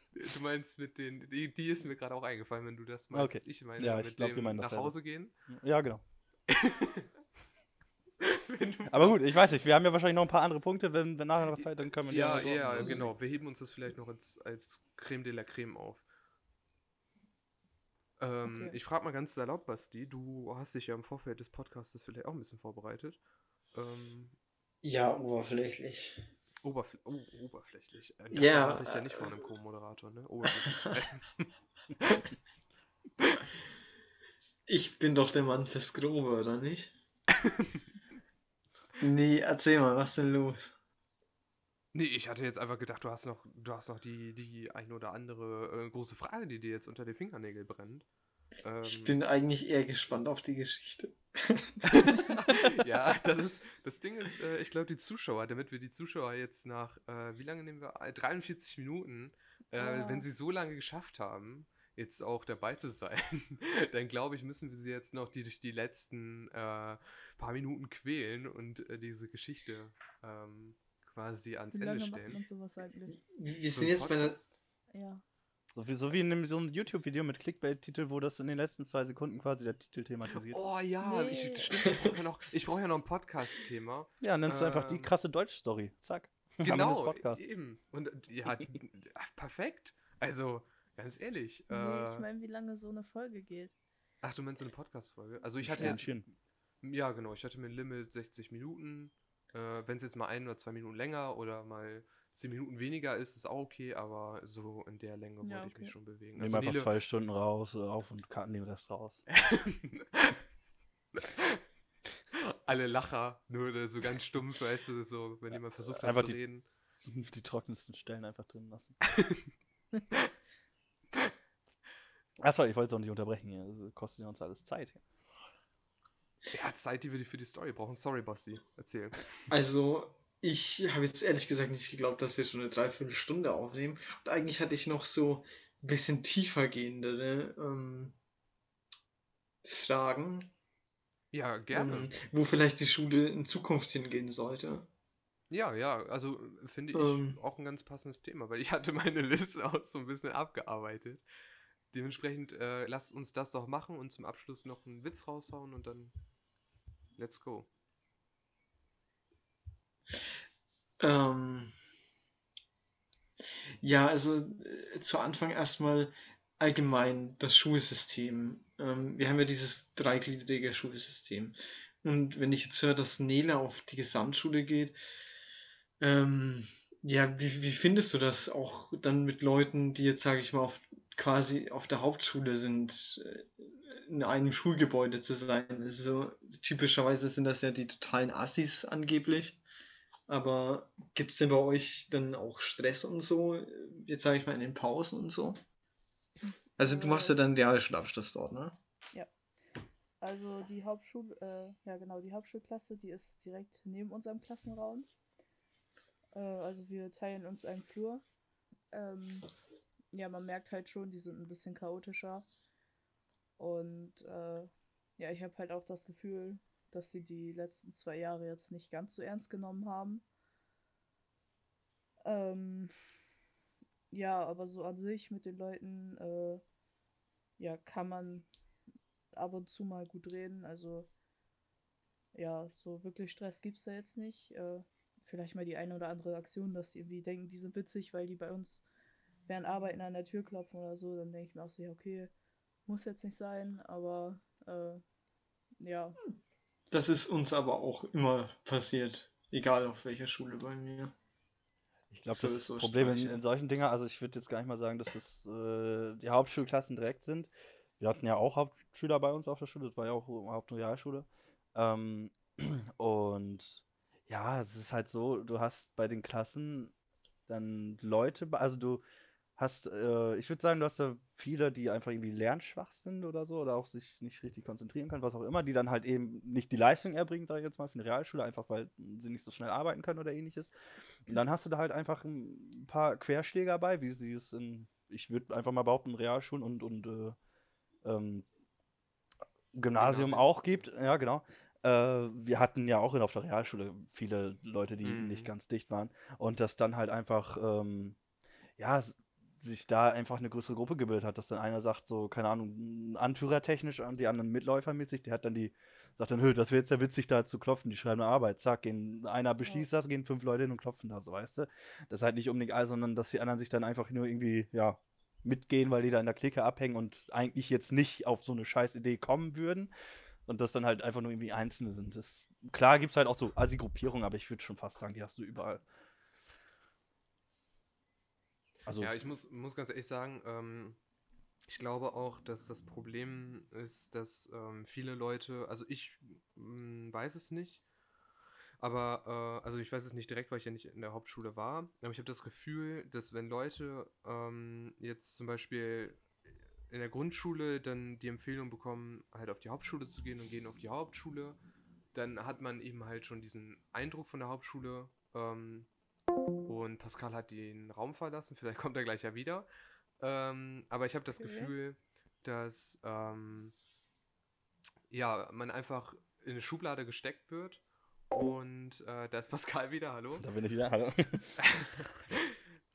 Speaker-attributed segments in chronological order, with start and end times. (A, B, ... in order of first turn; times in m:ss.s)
0:00.1-0:05.3 A
0:03.1-0:05.0 B
0:05.5-0:06.0 B
0:06.5-0:07.1 A
0:08.2-0:09.2 A
0:08.9-0:13.1 B
0:11.6-0:16.0 A
0:18.2-0:23.2 A
0:18.4-0:18.8 C
0:23.7-0:24.4 A
0:24.8-0:26.2 D
0:26.6-0:31.5 A
0:28.3-0:29.3 D
0:34.7-0:36.9 D
0:37.4-0:37.8 A
0:39.0-0:40.7 D
0:41.9-0:48.0 A
0:48.6-0:49.2 A
0:48.8-0:51.9 D
0:51.8-1:12.4 A
0:59.8-1:00.3 C
1:11.7-1:13.2 C
1:13.1-1:14.4 D
1:13.7-1:14.5 A
1:14.9-1:15.2 C
1:15.7-1:20.6 B
1:20.3-1:25.1 A
1:21.0-1:22.0 C
1:24.2-1:27.4 B
1:26.6-1:32.2 A
1:31.7-1:33.7 C
1:34.2-1:36.2 A
1:35.6-1:36.2 B
1:35.8-1:36.0 C
1:36.8-1:46.9 A
1:45.4-1:45.9 C
1:46.4-1:49.2 B
1:49.3-1:50.4 A
1:51.1-1:51.6 A
1:52.6-1:56.6 A
1:55.8-1:56.4 B
1:57.0-1:59.0 B
1:59.1-1:59.5 A
2:02.4-2:05.0 B
2:06.5-2:09.2 A
2:09.5-2:18.1 D
2:19.6-2:20.5 D
2:21.3-2:22.1 A
2:21.7-2:24.9 D
2:25.5-2:31.2 A
2:26.9-2:27.4 D
2:31.9-2:36.1 A
2:37.2-2:37.7 A
2:41.0-2:41.7 D
2:43.8-2:55.0 D
2:56.0-3:09.6 D
3:10.3-3:15.6 D
3:16.8-3:18.8 D
3:16.8-3:17.4 C
3:20.2-3:25.1 C
3:26.3-3:28.2 C
3:28.9-3:29.5 C
3:30.1-3:32.4 C
3:33.6-3:40.2 C
3:42.2-3:42.9 C
3:44.1-3:46.6 C
3:47.6-3:48.5 C
3:49.3-3:51.1 C
3:52.3-3:58.8 C
3:59.5-4:02.3 C
4:02.8-4:05.0 C
4:05.8-4:06.2 C
4:06.9-4:11.1 D
4:12.1-4:26.9 B
4:12.3-4:13.4 D
4:27.5-4:29.0 B
4:29.6-4:40.7 B
4:41.2-4:47.4 B
4:48.0-4:48.4 B
4:49.7-4:58.2 B
4:50.0-4:50.8 A
4:55.0-4:55.5 A
4:58.8-5:19.9 B
5:09.6-5:09.9 C
5:20.4-5:25.8 B
5:28.8-5:29.2 B
5:29.0-5:31.0 A
5:31.7-5:37.8 A
5:38.8-5:46.2 A
5:46.9-5:51.6 A
5:52.1-5:55.9 A
5:56.6-5:59.7 A
6:00.2-6:03.7 A
6:01.4-6:01.7 C
6:05.1-6:10.4 A
6:10.4-6:11.5 B
6:11.6-6:12.6 A